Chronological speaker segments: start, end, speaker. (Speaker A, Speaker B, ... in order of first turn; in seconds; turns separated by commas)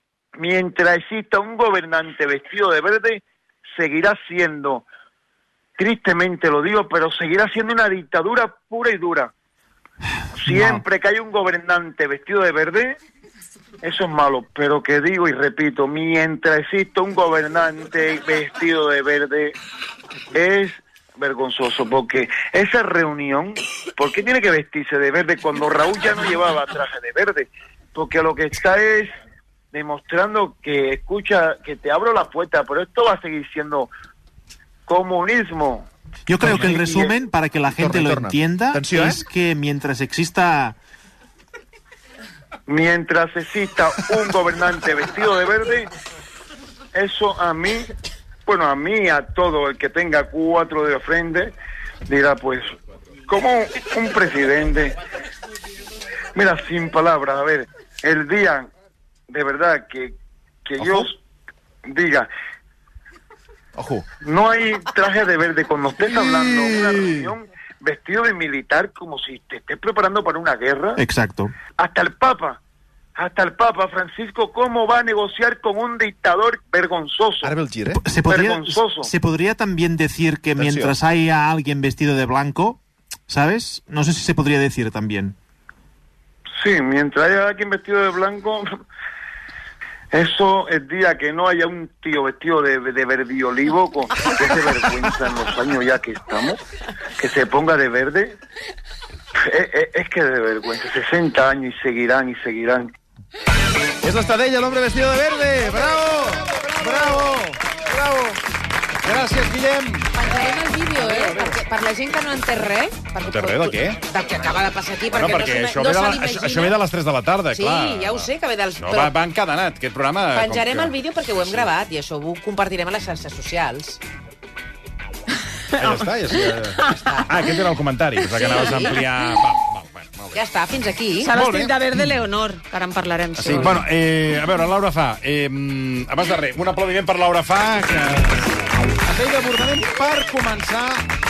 Speaker A: 0.4-3.2, Speaker A: 3.8-4.9, Speaker A: 5.8-9.3, Speaker A: 10.3-13.0, Speaker A: 13.8-19.6, Speaker A: 20.3-29.1, Speaker A: 29.7-33.9, Speaker A: 34.9-35.9, Speaker B: 36.3-40.8, Speaker C: 36.4-36.8, Speaker A: 36.4-37.1, Speaker C: 37.7-39.2, Speaker A: 42.7-45.9, Speaker A: 46.9-47.9, Speaker A: 48.5-51.5, Speaker A: 52.1-52.7, Speaker A: 53.3-55.0, Speaker A: 56.4-58.7, Speaker A: 59.3-60.1, Speaker A: 60.6-61.2, Speaker C: 60.8-61.1, Speaker A: 61.9-62.3, Speaker C: 63.8-64.1, Speaker A: 64.2-71.0, Speaker C: 66.1-67.3, Speaker B: 71.0-71.5, Speaker A: 71.8-72.6, Speaker A: 73.2-77.5, Speaker C: 77.4-78.5, Speaker B: 77.9-85.4, Speaker A: 78.3-79.1, Speaker C: 80.6-81.0, Speaker A: 86.6-88.7, Speaker A: 90.1-96.6, Speaker A: 97.2-98.4, Speaker A: 99.4-102.9, Speaker C: 104.0-108.4, Speaker D: 106.8-107.2, Speaker D: 109.0-110.1, Speaker E: 110.1-116.8, Speaker D: 111.0-111.6, Speaker D: 113.2-114.0, Speaker D: 115.1-121.7, Speaker E: 117.5-119.1, Speaker E: 120.3-124.0, Speaker D: 125.8-130.4, Speaker E: 127.0-127.3, Speaker F: 128.4-128.9, Speaker E: 128.4-128.9, Speaker E: 130.3-131.3, Speaker F: 131.2-133.8, Speaker D: 131.3-131.7, Speaker D: 133.4-141.1